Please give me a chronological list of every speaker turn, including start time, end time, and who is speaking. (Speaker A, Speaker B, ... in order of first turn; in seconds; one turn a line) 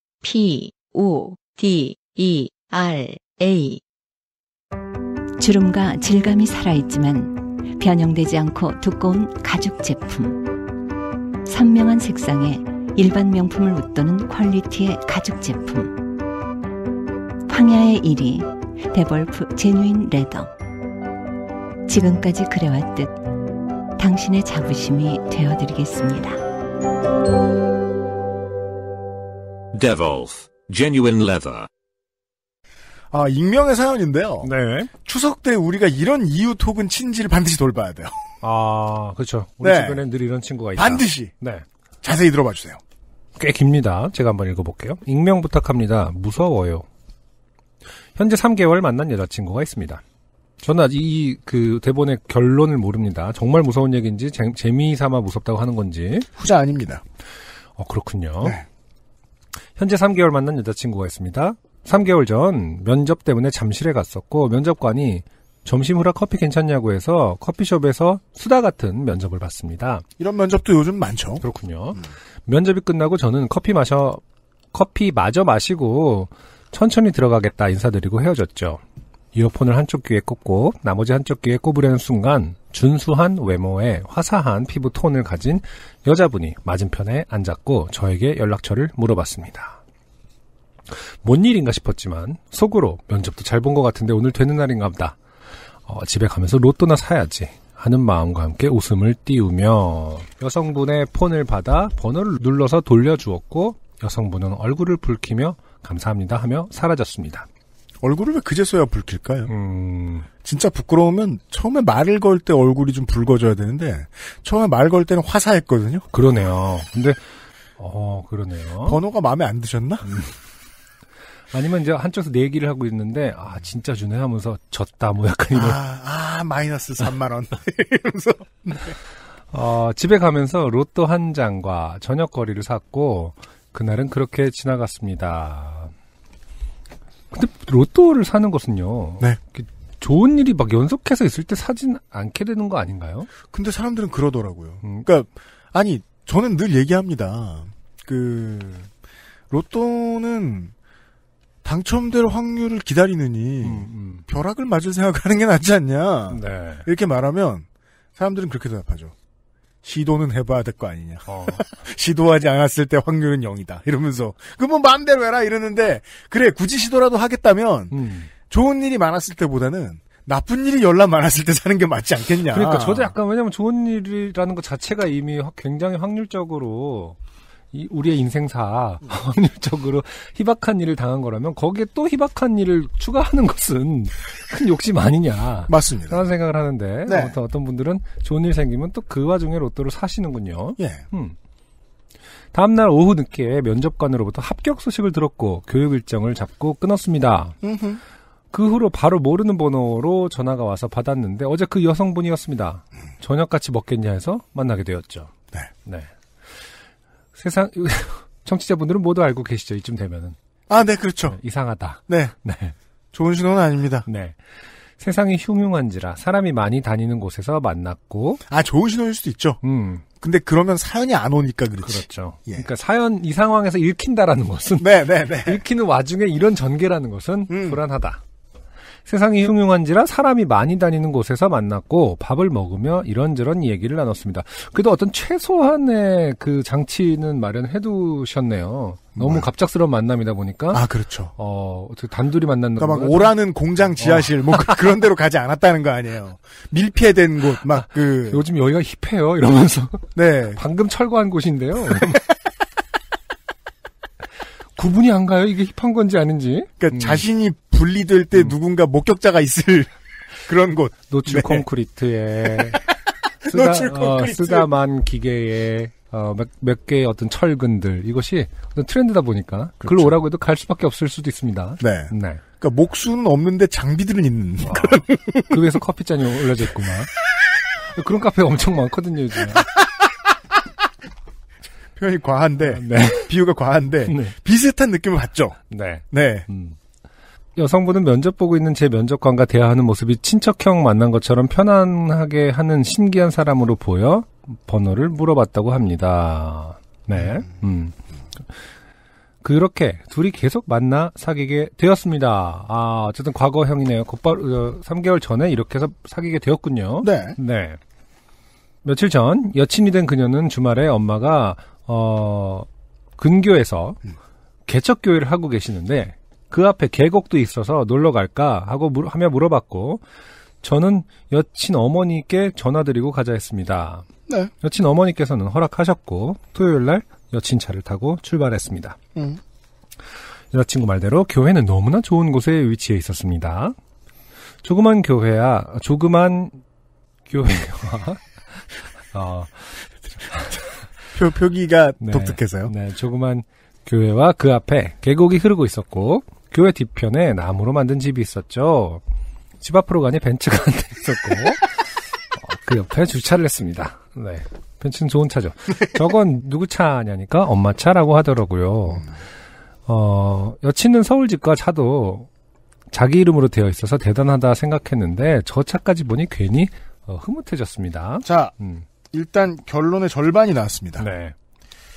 Speaker A: 0.2-3.8
Speaker B: 5.4-10.4
Speaker B: 11.5-15.9
Speaker B: 17.5-20.5
Speaker B: 21.9-23.2
Speaker B: 24.0-26.4
Speaker C: 29.7-31.7
Speaker D: 33.1-34.5
Speaker E: 34.4-34.9
Speaker D: 35.0-38.2
Speaker E: 38.4-41.6
Speaker D: 39.6-40.1
Speaker D: 40.8-41.3
Speaker D: 42.0-42.8
Speaker E: 43.4-46.9
Speaker E: 48.2-50.0
Speaker E: 50.6-56.3
Speaker D: 56.4-57.0
Speaker E: 57.8-58.6
Speaker E: 59.8-70.0
Speaker D: 70.2-71.5
Speaker E: 71.4-74.2
Speaker E: 74.7-78.8
Speaker E: 79.3-89.8
Speaker E: 91.1-95.2
Speaker E: 95.9-107.5
Speaker D: 108.0-109.5
Speaker E: 109.5-110.3
Speaker D: 110.4-116.1
Speaker E: 116.1-117.2
Speaker E: 117.8-119.0
Speaker D: 118.8-120.2
Speaker E: 121.5-125.8
Speaker D: 125.5-129.0
Speaker E: 129.5-135.9
Speaker E: 137.3-143.3
Speaker D: 143.5-148.9
Speaker E: 144.8-145.1
Speaker D: 149.5-150.7
Speaker D: 151.6-159.1
Speaker E: 153.6-154.3
Speaker E: 156.3-156.9
Speaker D: 159.8-168.0
Speaker E: 161.3-161.7
Speaker E: 167.9-168.3
Speaker D: 168.5-173.2
Speaker E: 172.5-177.2
Speaker E: 177.7-191.4
Speaker D: 185.7-186.3
Speaker D: 187.1-187.4
Speaker D: 190.8-191.1
Speaker E: 192.5-197.6
Speaker D: 197.6-198.0
Speaker E: 198.5-205.3
Speaker E: 205.8-206.1
Speaker E: 207.3-210.4
Speaker D: 210.7-211.4
Speaker E: 211.2-212.8
Speaker D: 212.1-212.3
Speaker D: 213.1-214.1
Speaker E: 214.1-214.4
Speaker E: 215.0-218.4
Speaker D: 218.5-219.6
Speaker E: 219.6-220.1
Speaker D: 220.2-222.7
Speaker E: 221.8-228.2
Speaker D: 224.8-225.6
Speaker D: 227.5-227.8
Speaker E: 229.1-243.3
Speaker D: 239.2-239.5
Speaker D: 240.7-241.3
Speaker D: 242.8-248.4
Speaker E: 243.9-245.0
Speaker E: 247.8-252.3
Speaker D: 250.2-250.6
Speaker E: 254.8-257.2
Speaker D: 256.8-259.9
Speaker D: 260.5-261.7
Speaker E: 261.1-262.8
Speaker D: 262.4-262.9
Speaker D: 263.4-264.7
Speaker E: 263.5-272.4
Speaker D: 269.8-270.2
Speaker D: 271.8-275.8
Speaker E: 274.6-277.1
Speaker E: 277.8-279.8
Speaker D: 282.0-285.6
Speaker E: 282.6-283.3
Speaker E: 284.1-284.4
Speaker E: 285.7-286.8
Speaker D: 286.1-286.5
Speaker E: 287.6-298.0
Speaker D: 297.2-297.4
Speaker E: 299.4-307.8
Speaker D: 307.0-307.4
Speaker E: 308.8-312.7
Speaker E: 313.2-314.0
Speaker E: 314.7-320.0
Speaker E: 320.6-324.1
Speaker E: 324.6-329.0
Speaker D: 329.1-329.4
Speaker E: 330.5-333.8
Speaker E: 334.6-336.6
Speaker E: 337.3-340.6
Speaker D: 341.1-342.7
Speaker E: 342.0-349.0
Speaker E: 349.6-359.1
Speaker E: 359.9-362.3
Speaker E: 362.9-368.9
Speaker D: 368.2-368.5
Speaker D: 369.1-371.1
Speaker E: 371.0-371.4